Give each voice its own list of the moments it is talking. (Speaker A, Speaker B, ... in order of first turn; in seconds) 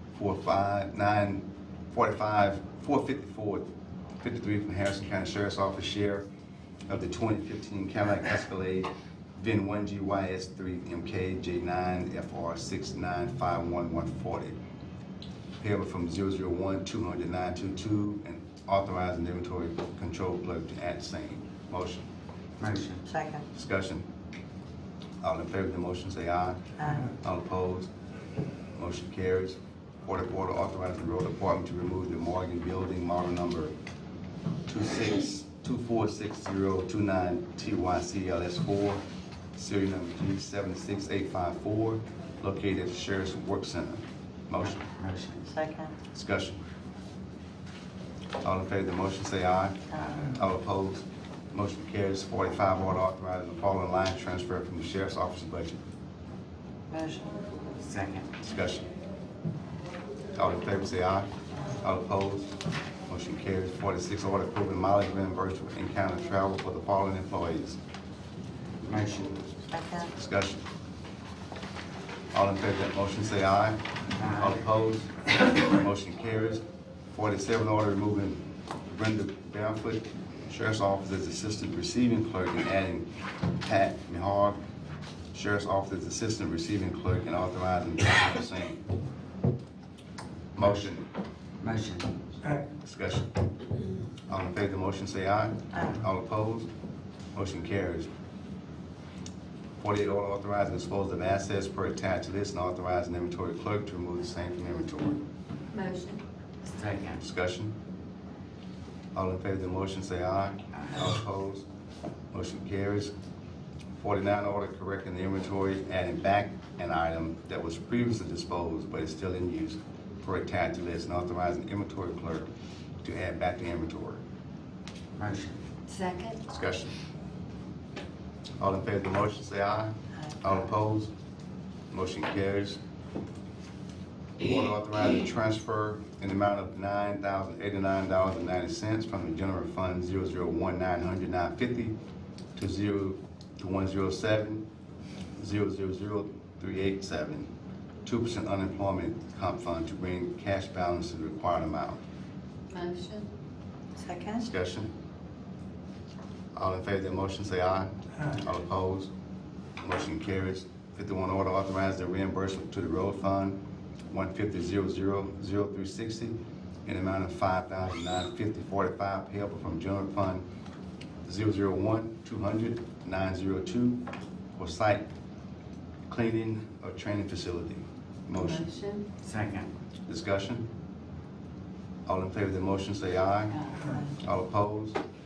Speaker A: 0.1-3.6, 4.2-6.2, 6.9-14.6, 15.6-22.0, 23.5-24.1, 25.2-27.9, 28.7-33.7, 34.6-39.0, 39.5-44.8, 46.1-46.6, 48.4-55.8, 58.4-58.9, 60.3-62.5, 63.1-67.8, 70.1-70.6, 72.3-73.8, 74.3-78.4, 78.9-83.1, 83.6-84.6, 85.3-88.8, 90.5-91.0, 92.7-93.3, 94.3-96.7, 97.3-98.1, 99.8-105.2, 107.2-107.7, 109.1-111.6, 112.3-113.1, 114.0-122.5, 123.0-124.2, 126.5-126.9, 128.6-131.1, 131.9-132.8, 134.4-141.9, 142.6-144.6, 145.4-147.5, 148.0-152.0, 154.4-154.9, 156.5-159.1, 159.8-163.6, 164.1-170.4, 171.2-174.0, 174.5-175.1, 176.1-178.7, 180.1-180.7, 182.1-185.0
Speaker B: 22.6-23.0, 45.0-45.5, 49.9-50.4, 57.8-58.3, 68.8-69.3, 74.2-74.6, 91.6-92.1, 106.6-107.2, 125.2-125.6, 179.2-179.7
Speaker C: 23.1-23.4, 45.5-45.9, 56.9-57.3, 69.7-70.1, 154.0-154.4
Speaker D: 105.7-106.2, 125.9-126.4, 152.7-153.3, 178.4-179.1